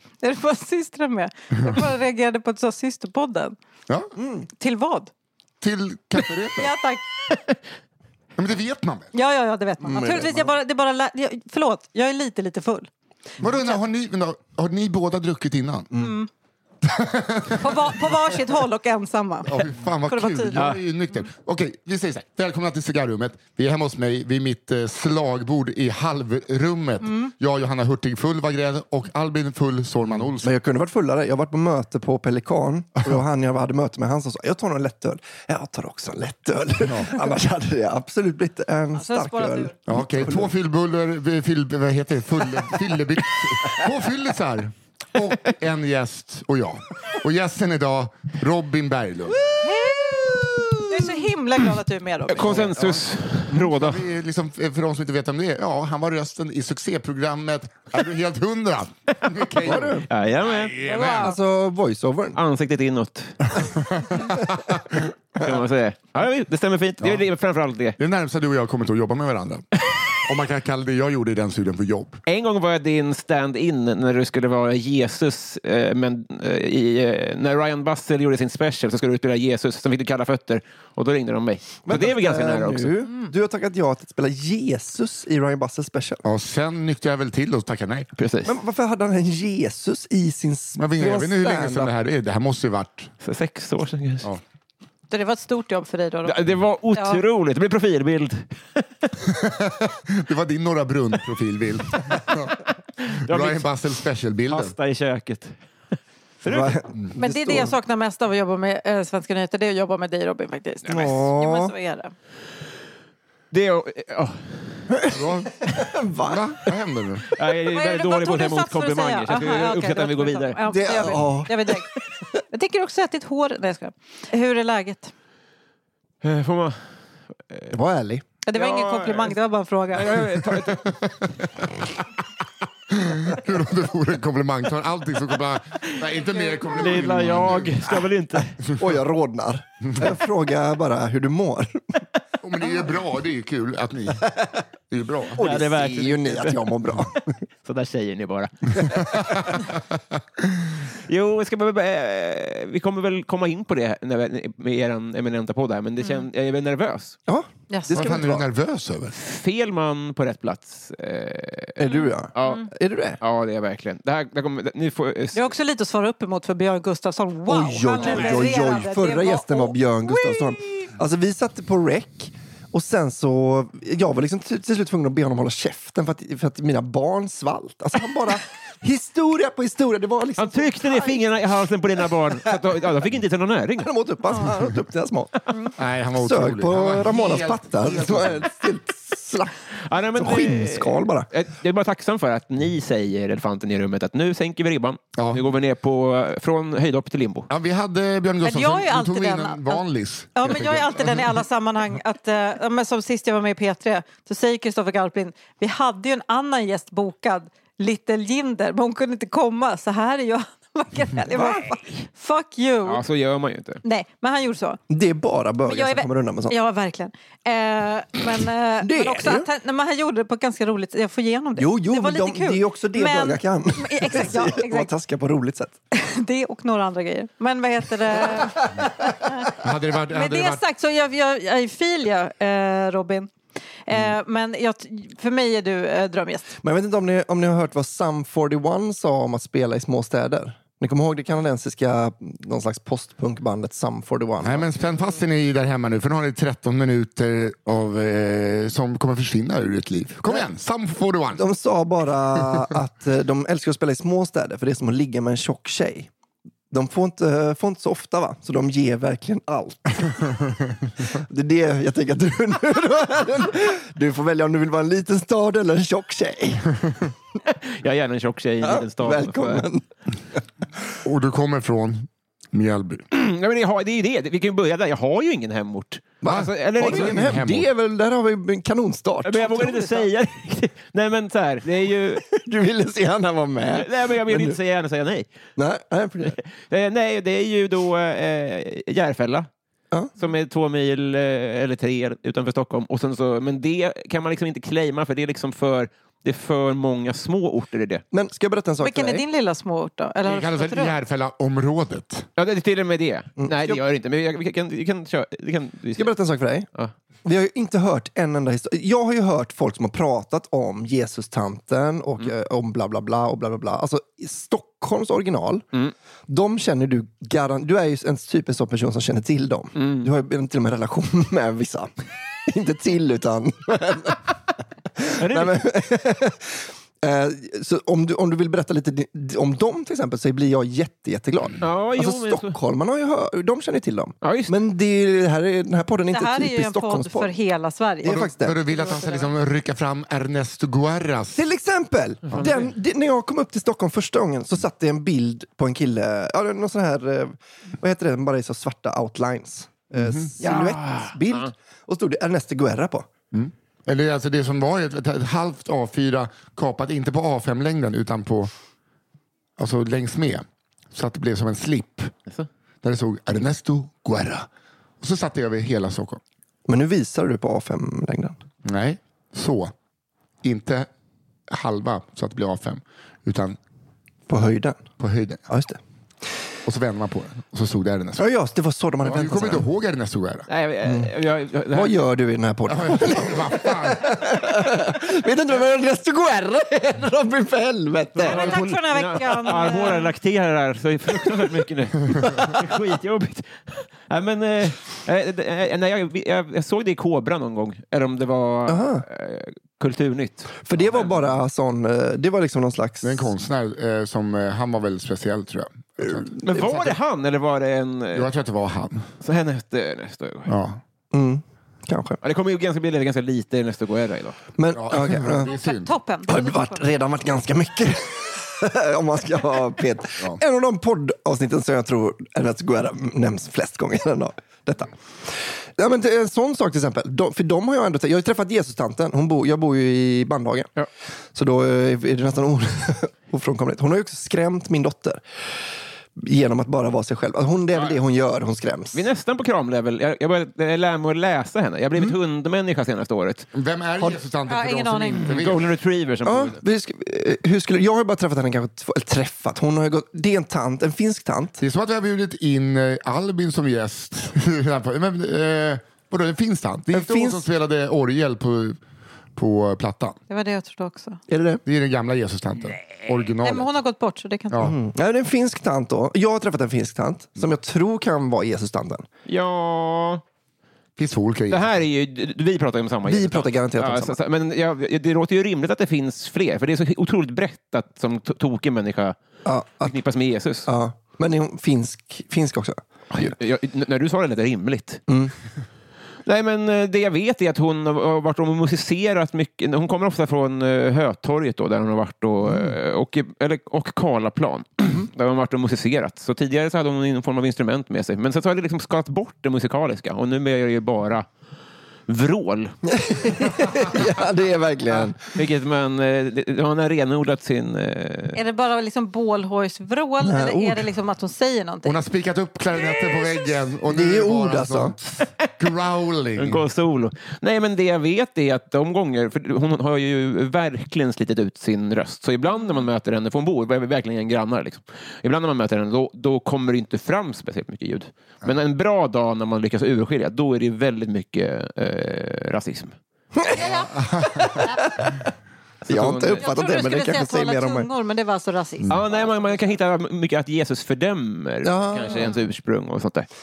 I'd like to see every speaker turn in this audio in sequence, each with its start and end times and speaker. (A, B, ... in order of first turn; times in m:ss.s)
0:00.2-0:03.6 A
0:04.2-0:04.5 B
0:04.6-0:05.1 A
0:05.6-0:06.7 C
0:06.6-0:07.0 A
0:08.4-0:09.1 C
0:09.1-0:12.9 A
0:09.8-0:10.6 B
0:13.4-0:15.9 C
0:13.5-0:13.8 A
0:15.9-0:16.2 B
0:15.9-0:16.3 A
0:16.8-0:18.4 C
0:17.6-0:20.6 A
0:19.4-0:30.5 C
0:20.5-0:20.8 D
0:27.0-0:27.3 A
0:30.4-0:40.5 B
0:36.8-0:37.2 C
0:39.0-0:39.7 A
0:39.9-0:49.4 C
0:49.5-0:50.8 D
0:49.6-0:50.1 A
0:50.9-0:52.6 A
0:52.3-0:54.1 D
0:52.4-1:01.3 C
0:59.6-1:00.1 B
1:00.1-1:00.8 D
1:00.8-1:01.4 A
1:01.0-1:02.4 B
1:02.4-1:03.7 D
1:03.6-1:05.0 C
1:05.4-1:08.0 D
1:08.0-1:12.2 C
1:12.3-1:23.0 D
1:21.9-1:26.2 B
1:26.2-1:28.1 C
1:28.2-1:28.6 D
1:28.4-1:31.9 B
1:30.8-1:33.1 C
1:33.2-1:34.3 D
1:35.1-1:37.2 A
1:36.2-1:39.1 D
1:39.4-1:44.8 C
1:43.0-1:43.8 D
1:44.5-1:46.8 D
1:46.4-1:47.8 B
1:47.1-1:52.1 A
1:50.9-1:51.1 D
1:50.9-1:51.7 B
1:53.5-1:54.8 D
1:54.9-1:56.6 B
1:55.1-1:55.6 C
1:56.3-1:57.3 C
1:57.3-2:00.6 D
1:57.6-2:01.9 A
2:00.7-2:01.6 B
2:02.5-2:05.1 A
2:06.2-2:06.8 D
2:07.5-2:07.8 D
2:07.7-2:08.2 B
2:08.4-2:10.2 A
2:08.5-2:09.4 D
2:09.9-2:11.0 D
2:10.6-2:11.9 C
2:12.9-2:18.0 C
2:15.8-2:16.1 D
2:16.6-2:18.6 D
2:18.7-2:22.0 B
2:22.4-2:25.4 C
2:25.3-2:27.3 B
2:25.4-2:26.7 D
2:27.6-2:29.7 D
2:31.1-2:37.2 D
2:37.3-2:38.5 B
2:37.7-2:38.1 A
2:37.9-2:39.2 C
2:39.1-2:41.8 D
2:41.8-2:43.2 B
2:41.9-2:42.7 A
2:42.4-2:42.7 D
2:43.2-2:45.5 D
2:45.3-2:50.8 A
2:47.5-3:01.3 B
2:48.1-2:48.4 D
3:00.4-3:03.9 D
3:03.8-3:09.5 B
3:05.8-3:08.5 C
3:09.9-3:17.5 D
3:10.1-3:11.3 B
3:15.2-3:15.4 C
3:17.5-3:21.3 C
3:18.4-3:19.8 A
3:20.4-3:33.0 A
3:31.3-3:31.7 B
3:32.8-3:33.8 D
3:33.8-3:34.8 A
3:34.9-3:36.6 B
3:35.7-3:44.9 A
3:38.8-3:39.5 B
3:41.5-3:45.7 B
3:45.9-3:49.6 A
3:49.5-3:50.6 C
3:50.1-3:53.3 A
3:53.9-3:56.5 A
3:56.6-4:04.7 B
4:04.4-4:11.4 C
4:11.3-4:16.1 B
4:16.7-4:20.4 B
4:21.0-4:27.1 B
4:27.5-4:29.7 D
4:28.6-4:30.4 B
4:31.0-4:33.0 C
4:33.1-4:37.3 D
4:36.2-4:39.6 B
4:36.3-4:37.7 C
4:39.2-4:42.2 D
4:39.3-4:40.1 A
4:42.1-4:44.6 B
4:43.7-4:45.3 D
4:45.6-4:46.4 B
4:46.2-4:49.5 D
4:50.2-4:58.0 D
4:58.1-4:59.2 B
4:58.8-5:01.0 A
5:00.2-5:02.3 C
5:02.4-5:06.2 D
5:03.4-5:03.8 B
5:06.0-5:06.7 B
5:07.2-5:15.6 B
5:16.3-5:21.9 B
5:19.8-5:20.1 D
5:22.5-5:24.3 B
5:25.0-5:37.3 B
5:25.2-5:25.6 D
5:31.6-5:32.6 D
5:34.2-5:34.5 D
5:36.1-5:39.3 A
5:38.0-5:38.6 B
5:38.0-5:41.4 C
5:41.4-5:53.1 B
5:42.3-5:42.7 D
5:42.3-5:42.6 C
5:50.0-5:50.4 C
5:50.4-5:51.5 D
5:53.3-5:58.5 C
5:59.6-6:02.1 C
6:02.8-6:04.5 C
6:05.0-6:06.2 C
6:06.7-6:08.4 B
6:08.6-6:09.7 C
6:10.4-6:10.9 C
6:11.5-6:13.6 C
6:14.3-6:14.9 B
6:15.0-6:15.4 C
6:15.5-6:15.8 B
6:16.6-6:18.3 C
6:18.2-6:19.7 B
6:19.0-6:20.5 C
6:20.5-6:22.0 D
6:20.8-6:21.1 B
6:21.7-6:28.6 B
6:22.7-6:24.0 C
6:28.2-6:41.3 D
6:28.2-6:30.1 A
6:32.2-6:32.5 B
6:38.7-6:39.0 B
6:40.6-6:43.3 B
6:43.0-6:47.0 C
6:46.2-6:48.3 D
6:48.1-6:49.0 C
6:49.2-6:50.5 D
6:50.5-6:50.8 C
6:51.1-6:52.2 B
6:52.2-6:54.4 D
6:54.6-6:55.5 B
6:54.7-6:55.9 C
6:55.4-6:56.9 A
6:56.3-7:04.9 B
7:05.8-7:10.7 B
7:11.3-7:15.2 B
7:16.2-7:19.1 B
7:18.9-7:23.5 D
7:23.5-7:25.7 C
7:24.5-7:25.3 A
7:25.2-7:26.6 D
7:26.2-7:31.6 B
7:31.6-7:38.8 C
7:36.9-7:37.5 B
7:39.4-7:40.2 C
7:40.3-7:41.2 A
7:41.3-7:41.6 B
7:41.6-7:43.7 C
7:43.4-7:44.6 A
7:44.6-7:49.1 B
7:49.3-7:50.2 D
7:51.0-7:51.7 C
7:51.5-7:59.2 D
7:53.0-7:54.2 B
7:59.4-8:00.0 B
7:59.8-8:00.7 D
8:00.6-8:03.3 B
8:03.1-8:05.0 D
8:05.1-8:05.3 B
8:06.3-8:21.3 D
8:22.1-8:24.0 D
8:22.9-8:25.2 B
8:24.9-8:28.4 D
8:28.3-8:32.0 A
8:30.2-8:30.9 B
8:31.8-8:36.6 C
8:33.9-8:35.0 B
8:36.4-8:53.0 D
8:53.4-8:55.3 B
8:53.6-8:53.9 A
8:53.8-8:54.6 C
8:55.8-8:56.5 D
8:55.9-8:57.9 B
8:56.4-8:59.3 A
8:58.9-9:03.3 D
9:01.6-9:02.4 B